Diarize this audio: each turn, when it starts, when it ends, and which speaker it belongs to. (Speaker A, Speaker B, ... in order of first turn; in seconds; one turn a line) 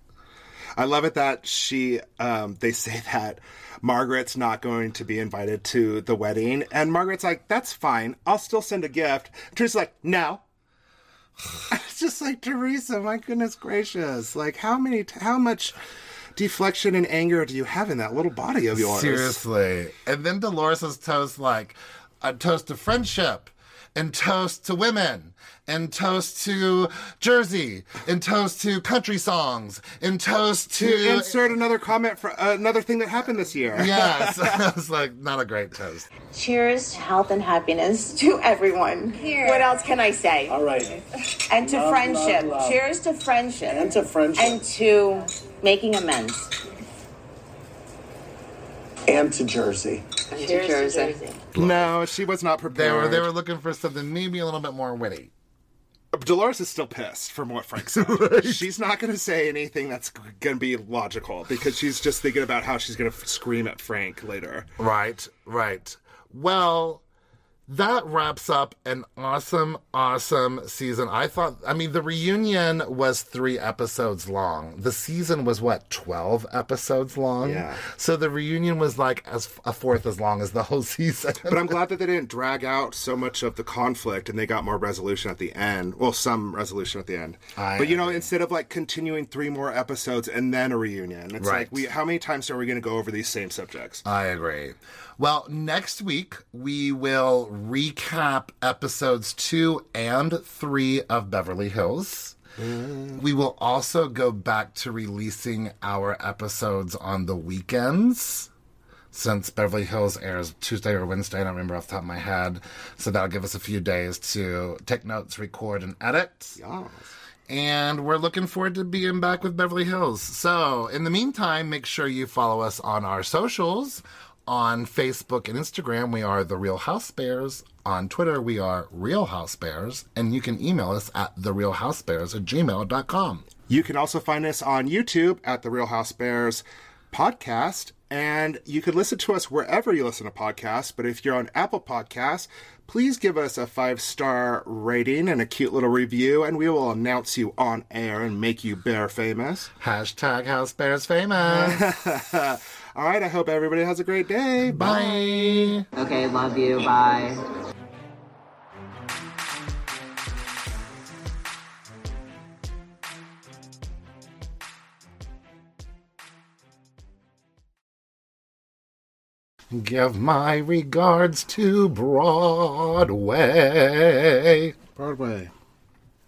Speaker A: 0.8-10.4
Speaker A: 11.7-15.8
Speaker A: 16.4-19.4
Speaker B: 18.7-31.5
Speaker A: 30.8-34.6
Speaker B: 33.7-36.1
Speaker C: 36.3-40.6
Speaker D: 40.5-41.0
Speaker C: 41.5-46.5
Speaker D: 41.5-42.8
Speaker D: 43.7-44.6
Speaker D: 49.1-50.2
Speaker C: 50.3-51.3
Speaker E: 50.5-51.1
Speaker B: 51.5-51.9
Speaker A: 51.5-53.3
Speaker B: 52.7-55.3
Speaker A: 56.1-64.7
Speaker B: 57.9-58.7
Speaker B: 64.8-67.0
Speaker B: 67.7-81.8
Speaker A: 77.4-77.8
Speaker A: 81.4-94.0
Speaker B: 87.5-88.3
Speaker B: 91.4-91.8
Speaker B: 94.0-102.4
Speaker A: 102.6-103.2
Speaker B: 103.1-108.5
Speaker B: 109.1-116.6
Speaker A: 116.6-117.1
Speaker B: 117.5-133.4
Speaker A: 133.7-149.7
Speaker B: 149.8-151.9
Speaker A: 151.4-155.2
Speaker B: 154.6-155.9
Speaker E: 155.9-157.4
Speaker B: 169.7-174.7
Speaker A: 174.9-175.5